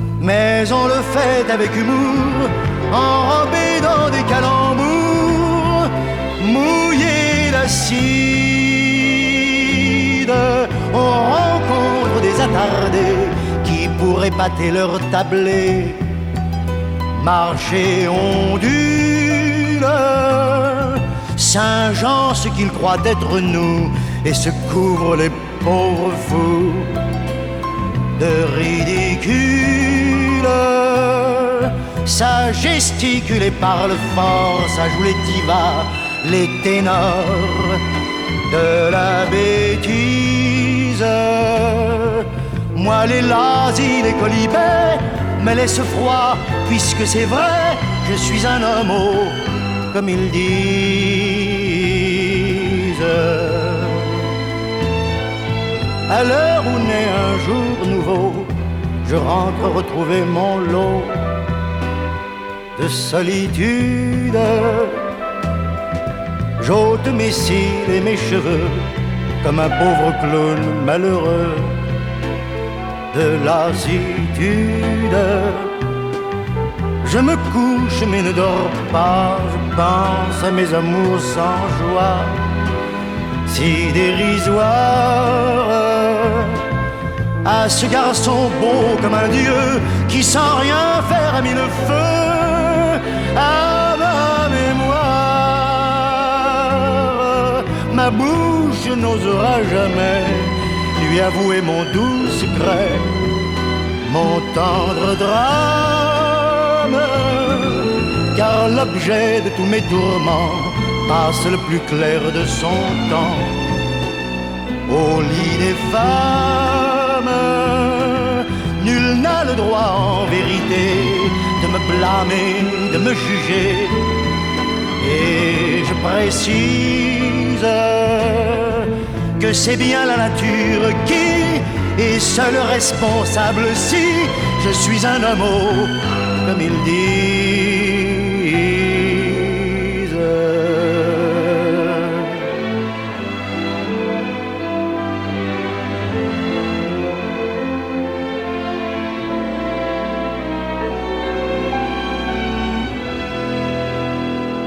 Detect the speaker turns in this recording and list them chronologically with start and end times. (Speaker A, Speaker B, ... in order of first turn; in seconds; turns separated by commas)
Speaker A: 0.2-16.0, Speaker A: 17.1-27.0, Speaker A: 28.2-37.8, Speaker A: 38.5-54.3, Speaker A: 56.1-58.5, Speaker A: 59.0-61.2, Speaker A: 62.8-65.0, Speaker A: 66.6-68.9, Speaker A: 69.4-71.8, Speaker A: 73.1-75.7, Speaker A: 77.0-82.4, Speaker A: 83.5-86.6, Speaker A: 87.4-103.1, Speaker A: 104.0-113.6, Speaker A: 114.9-124.0, Speaker A: 125.0-142.3